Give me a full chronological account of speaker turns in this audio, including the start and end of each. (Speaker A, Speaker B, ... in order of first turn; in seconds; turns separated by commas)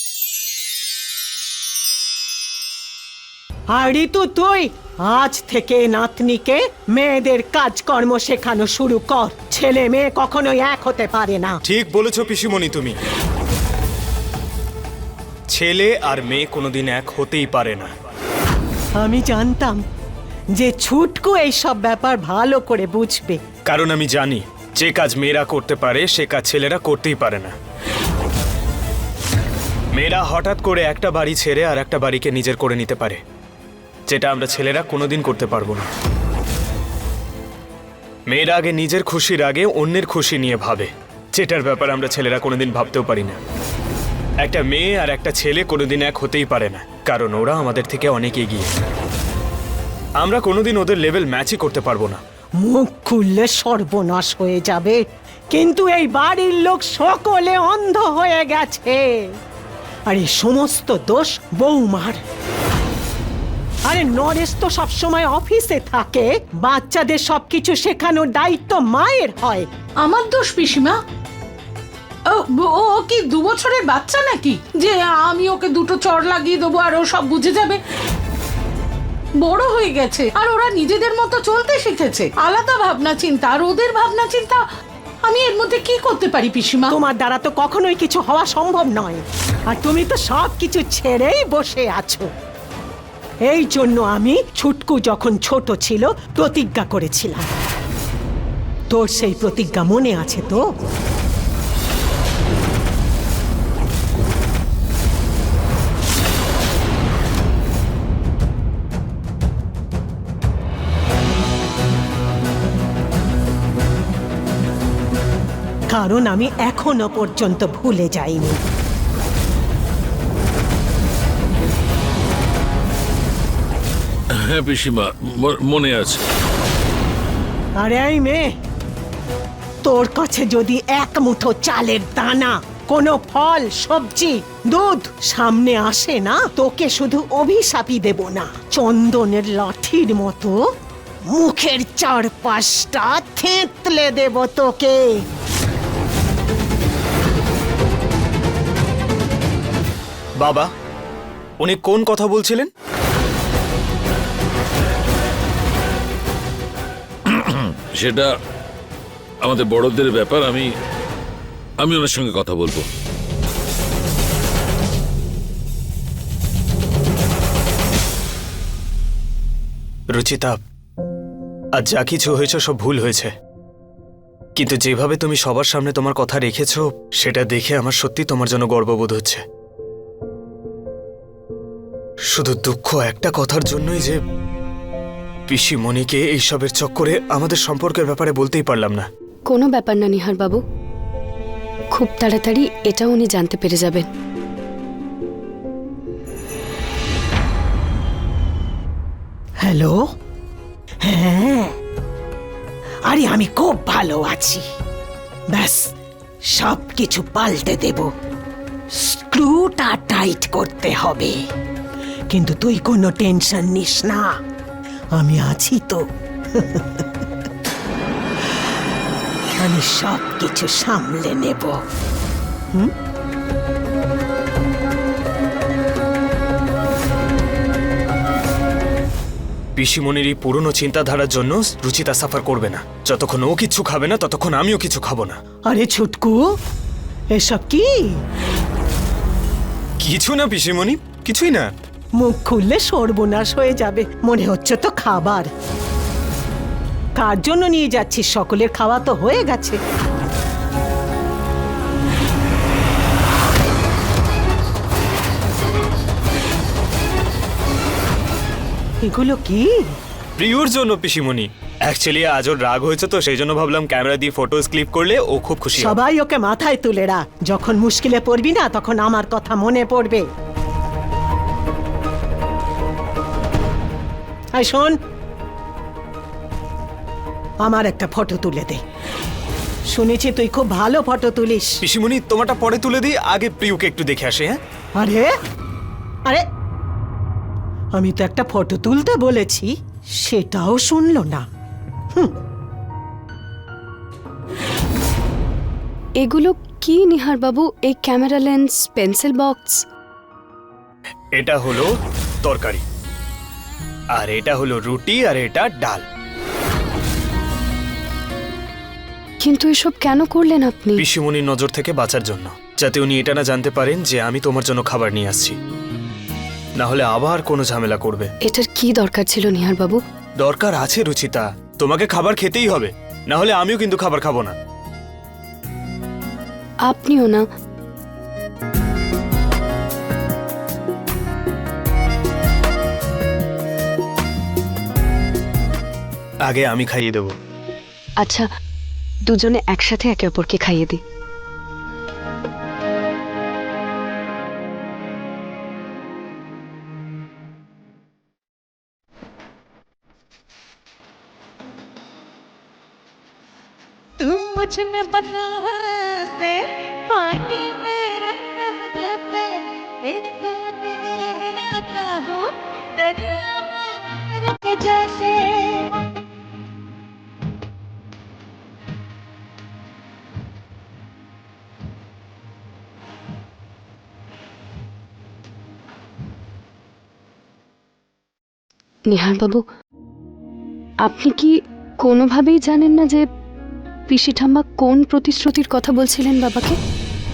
Speaker A: 3.7-11.6, Speaker B: 11.7-13.0, Speaker B: 15.5-17.9, Speaker A: 19.0-19.8, Speaker A: 20.5-23.4, Speaker B: 23.7-27.5, Speaker B: 29.9-33.2, Speaker B: 34.1-35.9, Speaker B: 38.3-43.4, Speaker B: 44.4-48.7, Speaker B: 50.2-52.2, Speaker A: 52.6-59.2, Speaker A: 60.1-62.2, Speaker A: 63.9-69.7, Speaker C: 70.0-71.0, Speaker C: 72.3-77.8, Speaker C: 79.4-84.6, Speaker C: 85.3-87.0, Speaker A: 86.9-92.3, Speaker A: 93.5-97.5, Speaker A: 98.9-100.7, Speaker A: 115.9-118.6, Speaker D: 124.3-126.2, Speaker A: 127.8-128.5, Speaker A: 129.8-140.6, Speaker A: 141.3-145.0, Speaker B: 150.4-150.7, Speaker B: 151.6-152.7, Speaker D: 157.3-158.3, Speaker D: 159.4-160.7, Speaker D: 161.8-162.9, Speaker B: 170.1-170.6, Speaker B: 171.8-173.3, Speaker B: 174.6-179.4, Speaker B: 182.3-184.2, Speaker B: 185.5-189.1, Speaker E: 189.5-190.6, Speaker E: 191.9-194.1, Speaker A: 199.6-200.0, Speaker A: 201.1-201.8, Speaker A: 203.1-204.7, Speaker A: 205.5-205.9, Speaker A: 206.5-208.1, Speaker A: 209.0-211.4, Speaker A: 212.3-214.3, Speaker A: 215.2-217.3, Speaker A: 218.4-218.7, Speaker A: 219.5-221.8, Speaker B: 229.8-235.4, Speaker A: 235.7-236.4, Speaker A: 237.4-237.9, Speaker B: 240.0-241.7, Speaker A: 242.2-245.5, Speaker A: 247.2-249.8, Speaker A: 259.0-259.8, Speaker B: 260.4-266.0, Speaker A: 265.8-270.3, Speaker A: 274.6-275.0, Speaker A: 277.7-278.8, Speaker A: 279.9-281.8, Speaker B: 281.8-284.6, Speaker A: 285.0-285.3, Speaker A: 288.0-289.7, Speaker A: 290.2-291.4, Speaker E: 296.2-299.9, Speaker B: 301.4-301.9, Speaker B: 302.4-302.8, Speaker B: 304.1-306.0, Speaker E: 309.4-311.0, Speaker B: 311.0-315.6, Speaker B: 316.8-318.3, Speaker E: 318.5-320.0, Speaker B: 320.4-324.5, Speaker E: 326.9-327.4, Speaker B: 336.5-337.3, Speaker E: 338.2-338.5, Speaker E: 339.3-341.0, Speaker F: 354.2-366.0, Speaker E: 379.1-379.6, Speaker E: 381.0-383.3, Speaker E: 384.1-386.8